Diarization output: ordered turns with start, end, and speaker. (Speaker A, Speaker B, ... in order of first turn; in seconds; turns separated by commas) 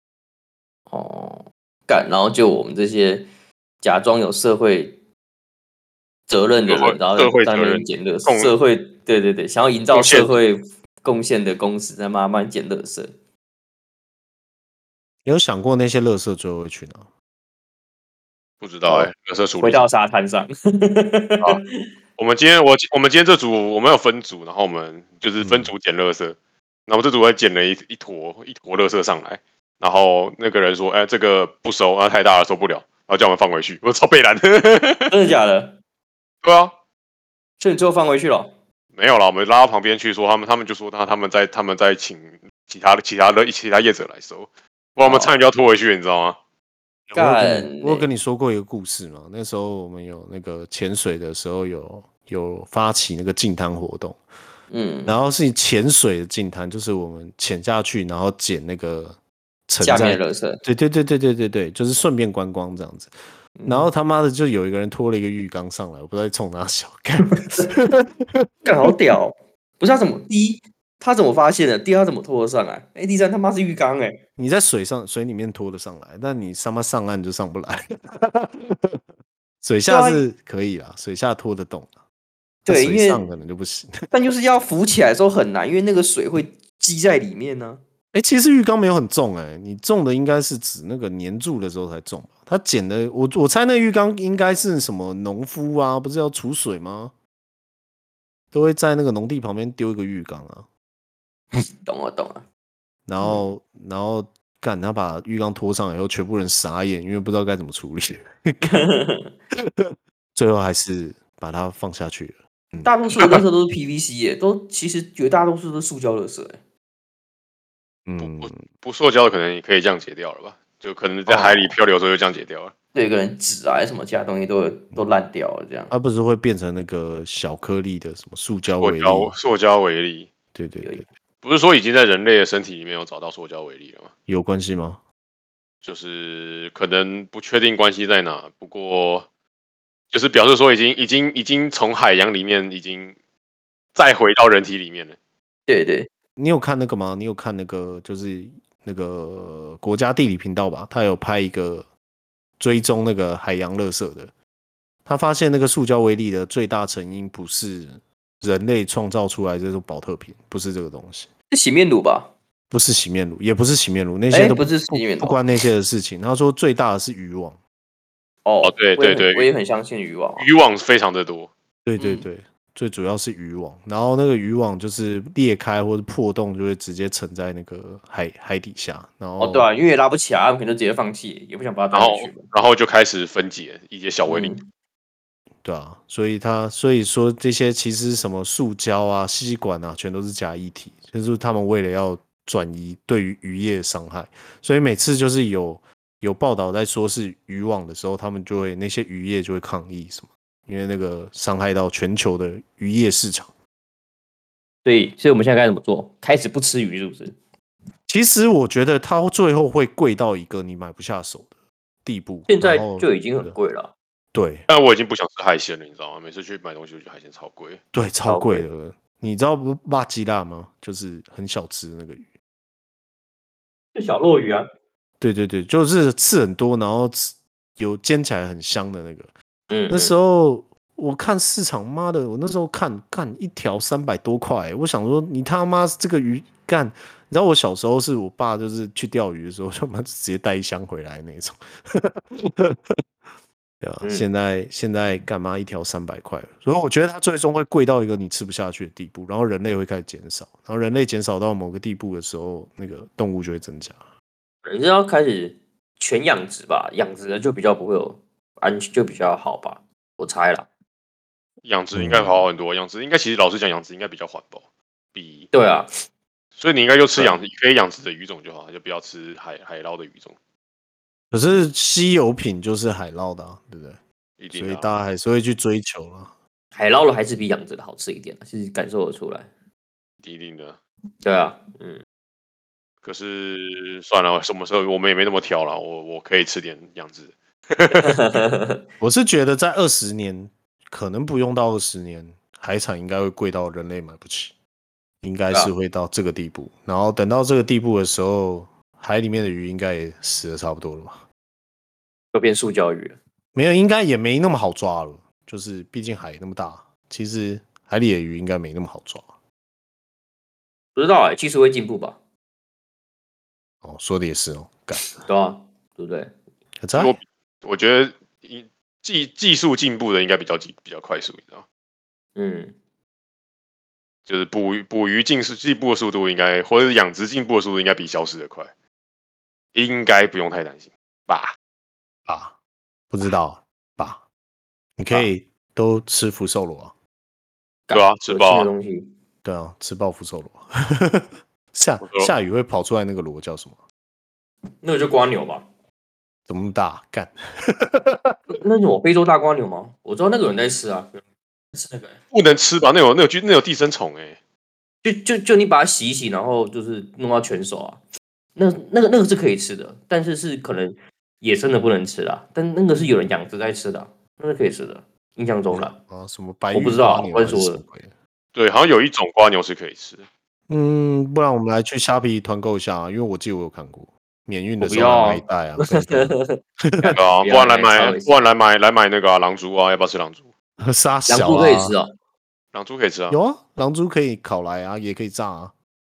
Speaker A: 0.9-3.3, Speaker A: 3.8-5.0, Speaker A: 6.3-13.1, Speaker B: 6.7-8.5, Speaker B: 9.9-10.4, Speaker C: 15.2-17.1, Speaker B: 18.6-19.8, Speaker A: 18.9-21.9, Speaker B: 22.2-26.4, Speaker C: 25.4-25.7, Speaker B: 26.9-35.1, Speaker A: 35.1-35.8, Speaker B: 36.4-36.7, Speaker A: 37.6-38.5, Speaker B: 38.9-46.4, Speaker A: 45.0-45.3, Speaker C: 47.1-54.2, Speaker A: 47.1-48.1, Speaker A: 54.7-55.1, Speaker C: 55.0-63.1, Speaker A: 59.8-60.6, Speaker A: 63.6-63.9, Speaker C: 63.6-68.9, Speaker A: 67.4-67.7, Speaker A: 68.6-74.2, Speaker C: 74.3-79.0, Speaker C: 79.6-82.0, Speaker A: 79.9-80.2, Speaker A: 82.6-83.2, Speaker C: 82.7-84.1, Speaker A: 84.1-87.8, Speaker C: 88.1-97.1, Speaker C: 98.5-100.7, Speaker A: 101.5-102.4, Speaker C: 103.1-108.9, Speaker A: 108.6-109.3, Speaker C: 109.8-113.0, Speaker A: 112.8-116.6, Speaker C: 118.0-118.6, Speaker B: 118.2-122.7, Speaker C: 121.3-121.8, Speaker A: 122.9-125.9, Speaker C: 125.9-129.3, Speaker B: 128.8-130.3, Speaker C: 130.5-131.1, Speaker B: 131.4-134.1, Speaker C: 134.3-135.0, Speaker B: 135.8-139.3, Speaker B: 140.1-143.2, Speaker B: 143.9-145.2, Speaker A: 145.7-146.1, Speaker C: 146.4-151.9, Speaker C: 152.6-154.3, Speaker C: 155.1-161.3, Speaker A: 161.5-162.3, Speaker C: 162.7-167.6, Speaker A: 164.3-165.4, Speaker A: 168.4-170.5, Speaker B: 168.6-169.5, Speaker B: 170.4-171.5, Speaker C: 171.8-179.7, Speaker A: 172.0-172.2, Speaker A: 179.4-182.4, Speaker B: 181.9-184.6, Speaker A: 184.3-184.6, Speaker C: 185.6-203.5, Speaker A: 204.8-207.3, Speaker C: 208.1-213.6, Speaker A: 212.5-213.9, Speaker C: 214.3-214.7, Speaker B: 214.7-217.8, Speaker C: 217.9-222.3, Speaker A: 218.2-218.7, Speaker A: 223.9-224.6, Speaker C: 225.2-229.3, Speaker A: 229.7-230.1, Speaker C: 229.9-243.0, Speaker C: 243.8-254.1, Speaker A: 254.6-260.7, Speaker B: 261.6-264.6, Speaker C: 261.9-262.4, Speaker B: 265.1-265.5, Speaker A: 265.5-265.9, Speaker B: 266.6-270.4, Speaker C: 271.3-274.0, Speaker B: 274.4-274.9, Speaker C: 274.5-276.4, Speaker A: 276.7-279.5, Speaker B: 280.2-280.8, Speaker A: 281.2-282.0, Speaker B: 283.0-288.3, Speaker A: 288.0-288.8, Speaker C: 289.0-294.5, Speaker C: 295.2-301.2, Speaker A: 302.3-303.2, Speaker C: 303.5-309.3, Speaker A: 310.9-312.2, Speaker C: 313.8-315.2, Speaker A: 315.2-316.3, Speaker C: 316.8-317.1, Speaker B: 316.9-321.6, Speaker A: 322.4-322.7, Speaker B: 324.3-328.7, Speaker B: 329.7-331.6, Speaker C: 332.3-332.6, Speaker C: 333.1-334.2, Speaker C: 335.0-336.9, Speaker A: 337.9-339.1, Speaker B: 337.9-338.7, Speaker C: 339.4-343.8, Speaker B: 342.0-342.3, Speaker A: 344.8-345.6, Speaker C: 346.5-348.4, Speaker A: 348.5-351.2, Speaker A: 351.7-352.2, Speaker B: 352.3-354.4, Speaker A: 355.0-358.0, Speaker A: 358.6-365.9, Speaker C: 365.7-368.1, Speaker A: 366.7-367.8, Speaker B: 368.5-370.2, Speaker C: 370.7-377.1, Speaker A: 374.8-375.4, Speaker A: 376.0-378.3, Speaker B: 377.1-380.5, Speaker C: 380.8-382.0, Speaker A: 381.3-382.1, Speaker B: 382.7-383.4, Speaker C: 383.3-385.7